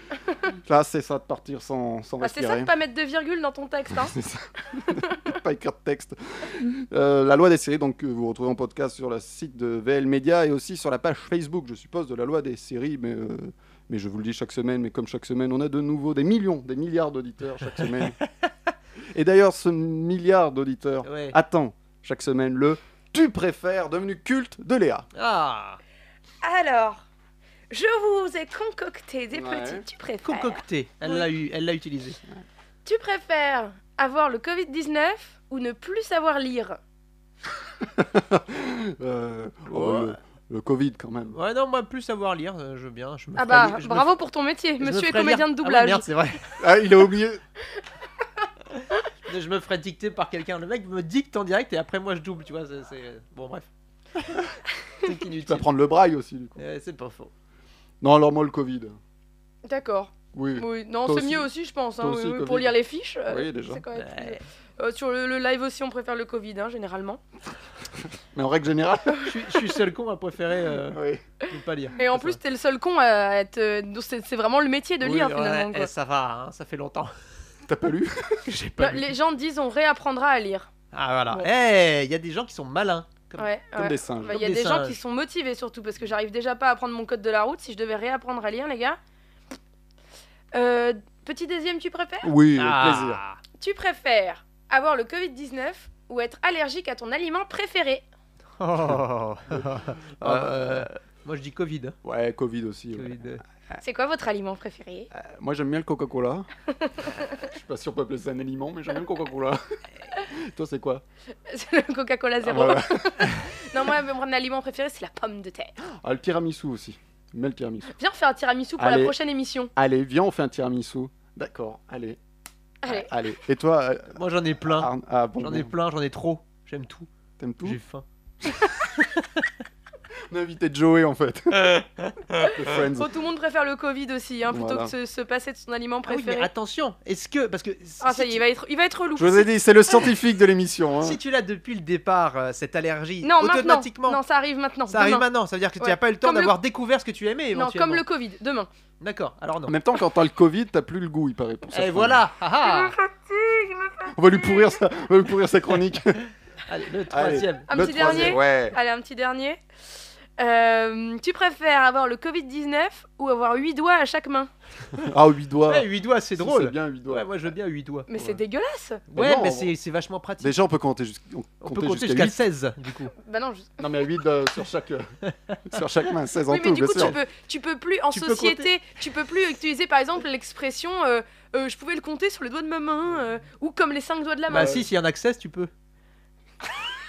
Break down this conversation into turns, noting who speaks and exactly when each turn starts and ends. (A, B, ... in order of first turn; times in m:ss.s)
0:00.6-0:02.7 A
0:02.2-0:04.1 B
0:04.0-0:18.2 A
0:19.1-0:25.1 A
0:21.0-0:21.4 C
0:25.2-0:25.8 C
0:26.4-0:27.0 B
0:27.7-0:31.3 B
0:29.3-0:29.8 A
0:30.3-0:32.2 C
0:32.8-0:36.8 B
0:37.8-0:41.4 A
0:39.7-0:40.2 C
0:41.3-0:44.1 C
0:43.4-0:46.1 B
0:44.8-0:46.6 C
0:46.6-0:47.4 A
0:49.3-0:53.7 C
0:55.0-0:55.7 C
0:55.4-0:56.6 A
0:56.6-0:57.3 C
0:58.0-0:59.0 A
0:59.7-1:07.2 B
1:00.3-1:02.8 A
1:03.3-1:03.8 A
1:04.0-1:04.4 C
1:08.4-1:09.3 A
1:09.2-1:12.4 C
1:10.9-1:11.2 A
1:12.0-1:15.9 B
1:15.0-1:17.1 C
1:17.7-1:18.4 A
1:18.5-1:19.1 C
1:18.8-1:20.7 B
1:20.9-1:23.5 C
1:23.4-1:29.0 B
1:23.8-1:24.4 A
1:24.2-1:25.0 C
1:30.5-1:32.3 B
1:32.2-1:33.2 A
1:32.6-1:33.4 C
1:33.6-1:38.0 B
1:38.6-1:42.0 C
1:40.2-1:40.9 A
1:42.0-1:43.8 A
1:42.9-1:43.4 C
1:43.8-1:45.1 B
1:45.1-1:46.5 A
1:46.8-1:47.3 B
1:47.5-1:49.6 A
1:50.2-1:51.0 A
1:51.5-1:55.7 B
1:52.4-1:53.4 A
1:56.0-1:57.9 A
1:58.0-1:59.7 B
1:58.8-1:59.2 A
1:59.8-2:02.2 A
2:02.8-2:03.1 B
2:02.9-2:04.2 A
2:04.2-2:07.1 C
2:04.7-2:05.7 A
2:07.4-2:07.8 A
2:07.6-2:08.0 C
2:10.3-2:11.8 A
2:12.4-2:13.1 A
2:13.0-2:16.5 B
2:14.5-2:14.9 A
2:16.1-2:18.4 C
2:18.0-2:19.5 B
2:19.2-2:21.2 A
2:21.0-2:24.2 C
2:23.2-2:25.3 B
2:24.9-2:28.0 C
2:25.8-2:26.6 B
2:27.5-2:28.7 B
2:29.0-2:29.8 C
2:29.7-2:32.2 A
2:31.7-2:32.9 C
2:32.6-2:34.1 B
2:34.2-2:36.2 A
2:36.7-2:38.4 C
2:37.1-2:38.8 A
2:37.7-2:39.6 B
2:40.4-2:44.5 B
2:45.0-2:47.3 A
2:45.7-2:48.1 C
2:48.1-2:49.1 B
2:48.1-2:48.4 A
2:49.1-2:49.7 A
2:49.1-2:50.6 C
2:50.4-2:52.4 A
2:51.6-2:53.1 C
2:53.2-2:53.8 B
2:53.8-2:55.1 A
2:55.7-2:57.2 A
2:56.5-3:04.8 B
2:58.1-2:58.7 C
3:04.5-3:05.7 C
3:04.5-3:04.9 A